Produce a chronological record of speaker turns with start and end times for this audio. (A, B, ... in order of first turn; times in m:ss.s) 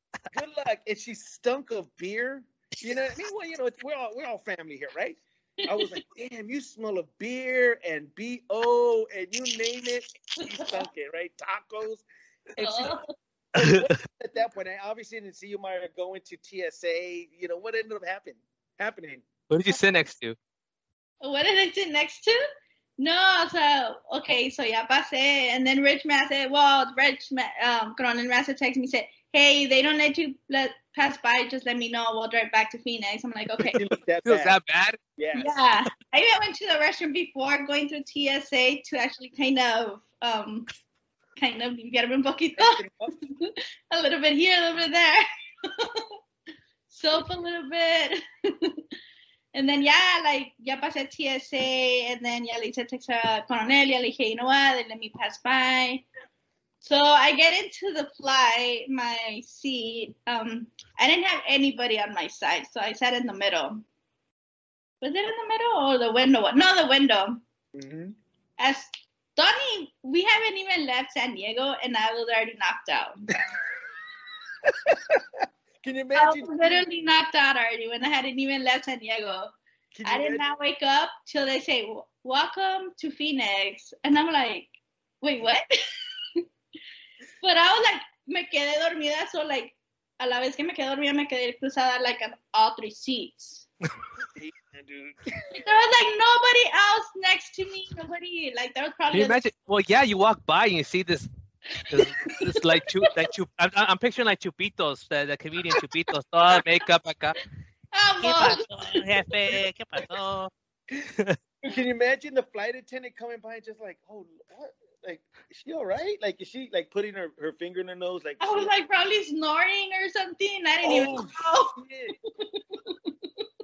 0:00.3-0:13.0 A
0:05.6-0:06.0 B
0:10.4-0:10.8 B
0:12.6-0:13.1 B
0:13.5-0:19.2 A
0:13.6-0:13.9 C
0:19.5-0:20.4 C
0:21.2-0:22.4 B
0:23.0-0:33.8 B
0:33.7-0:34.6 A
0:34.2-0:35.0 C
0:35.2-0:35.6 A
0:35.3-0:40.7 B
0:41.4-0:46.1 B
0:42.6-0:43.1 A
0:46.9-0:48.8 B
0:49.5-0:56.0 B
0:56.8-1:03.8 B
1:05.0-1:07.4 B
1:07.7-1:08.1 A
1:08.6-1:13.3 B
1:14.7-1:16.8 A
1:16.1-1:25.6 B
1:19.9-1:20.4 A
1:27.4-1:33.6 B
1:34.2-1:35.7 A
1:35.5-1:39.4 B
1:39.1-1:41.3 C
1:41.7-1:43.1 B
1:41.9-1:47.4 C
1:47.9-1:49.6 B
1:48.2-1:51.4 C
1:51.6-1:58.7 A
1:58.4-2:01.8 B
2:00.8-2:02.2 A
2:02.4-2:03.4 B